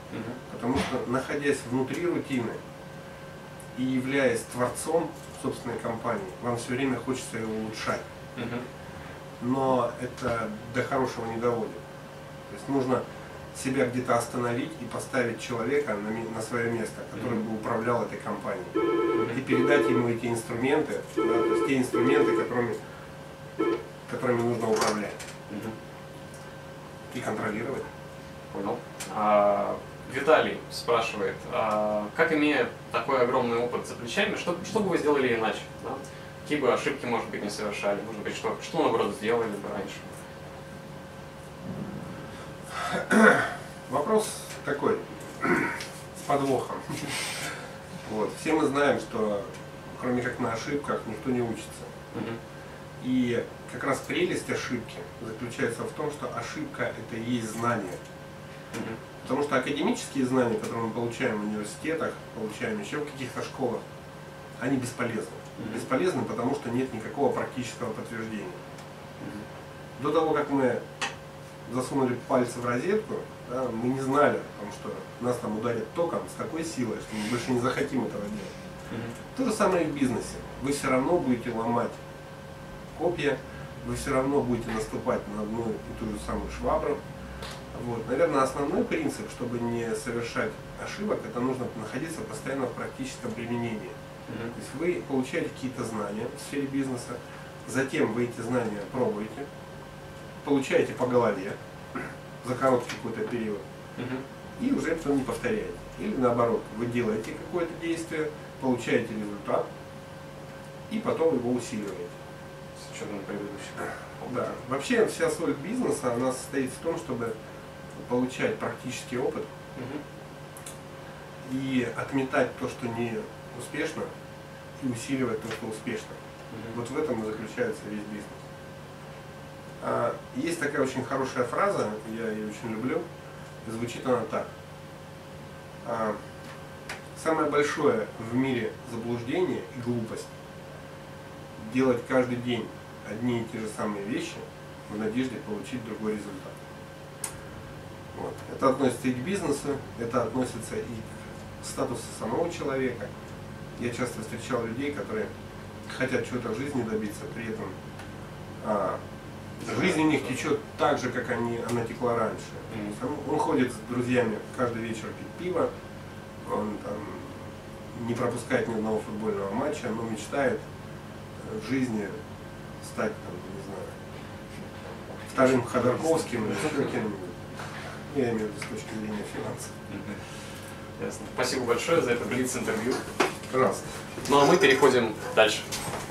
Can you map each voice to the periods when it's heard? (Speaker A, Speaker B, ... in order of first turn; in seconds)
Speaker A: 0.1-0.4, 8.3-8.6, 17.1-17.4, 19.1-19.4, 25.5-25.7, 28.5-40.1, 52.1-52.4, 58.7-59.0, 65.6-65.8, 78.9-79.2, 94.3-94.5, 104.0-104.2, 112.8-114.5, 119.7-120.0, 126.5-126.8, 159.6-160.4, 162.7-163.0, 175.3-176.9, 179.9-180.2, 181.0-183.0, 184.2-185.7
Speaker B: 0.5-2.6, 3.8-8.0, 9.4-11.8, 12.5-13.0, 13.5-18.7, 19.3-22.8, 24.1-25.2, 27.1-27.9, 42.9-47.2, 48.0-51.9, 53.0-58.0, 59.2-63.8, 64.6-68.6, 70.0-70.8, 71.7-78.5, 79.3-82.0, 82.9-87.0, 87.7-93.9, 94.5-99.5, 100.4-103.6, 104.6-109.7, 110.9-112.2, 114.3-117.3, 118.0-119.5, 121.4-124.1, 124.8-126.2, 126.7-128.4, 129.8-133.0, 133.6-134.5, 135.8-136.2, 137.1-140.3, 141.6-146.5, 148.1-151.1, 151.6-153.1, 153.8-155.3, 155.9-157.7, 158.6-159.0, 159.6-165.7, 166.4-170.6, 171.4-172.2, 172.8-174.0, 175.3-177.4, 178.1-179.7, 183.5-183.8